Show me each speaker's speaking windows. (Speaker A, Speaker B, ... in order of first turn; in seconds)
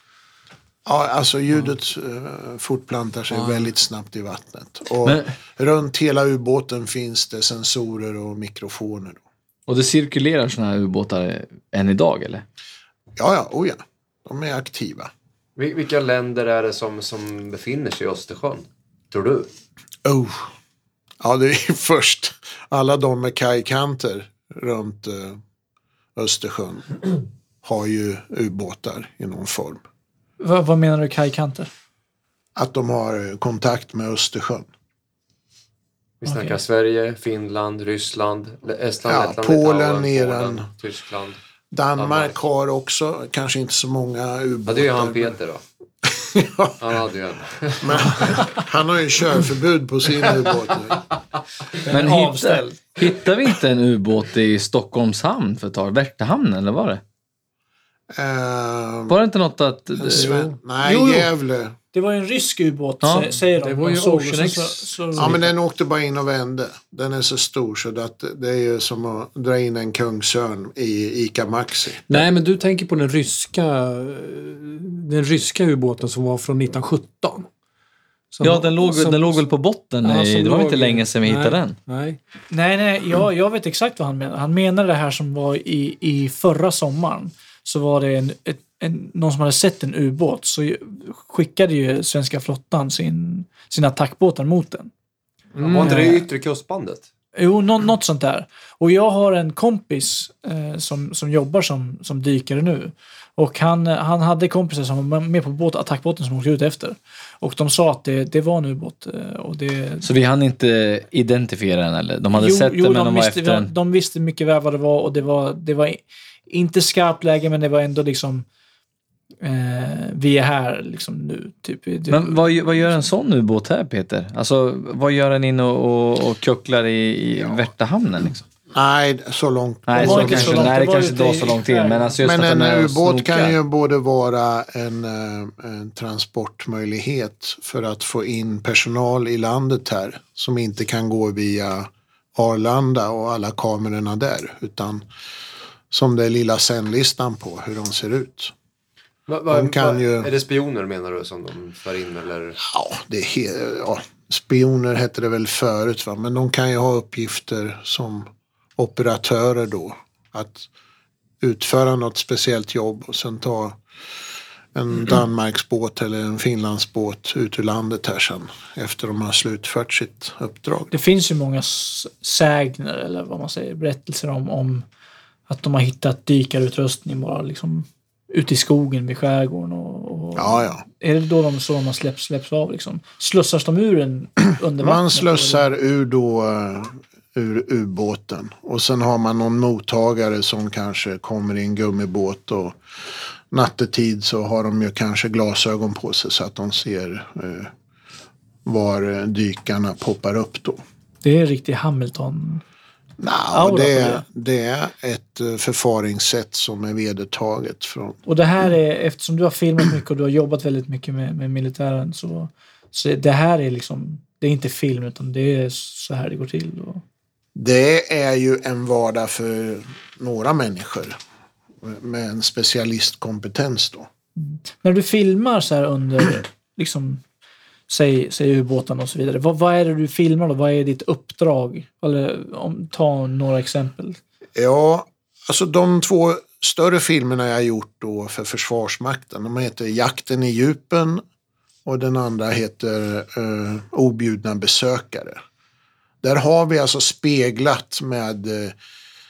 Speaker A: 0.8-9.2, 13.2-15.1, 20.0-20.5, 21.2-25.4, 26.1-29.8, 32.5-34.7, 39.1-40.7, 41.7-45.3, 46.0-46.8, 47.8-51.1, 58.1-59.2, 60.0-61.8, 65.2-72.2, 128.7-130.7, 132.2-145.0, 145.9-148.5, 149.5-150.3, 152.6-160.7, 161.4-163.8, 164.7-170.9, 180.4-180.8, 184.8-192.8, 193.5-197.7, 198.7-200.8, 203.2-208.2, 217.5-221.2, 221.8-224.1, 234.6-241.2, 241.8-245.4, 246.2-248.8
Speaker B: 3.3-3.7, 60.1-60.5, 63.4-65.4, 72.1-77.5, 78.3-79.5, 80.0-82.2, 95.6-96.2
Speaker C: 5.0-5.3, 9.7-12.4, 51.9-57.0, 59.1-60.4, 63.0-63.3, 78.4-81.8, 110.0-113.7, 122.1-128.4, 129.9-133.6
Speaker D: 15.6-19.5, 36.2-41.4, 42.0-42.4, 44.7-45.6, 46.8-48.5, 95.6-97.0, 149.3-152.6
Speaker E: 30.4-31.7, 36.3-36.5, 51.8-52.8, 60.8-61.3, 61.9-65.5, 82.5-94.9, 95.8-96.2, 97.3-110.0, 112.3-118.5, 119.4-123.1, 130.0-132.2, 170.9-174.8, 175.5-185.6, 201.2-202.6, 203.5-204.2, 208.2-217.0, 224.4-227.2, 227.9-234.2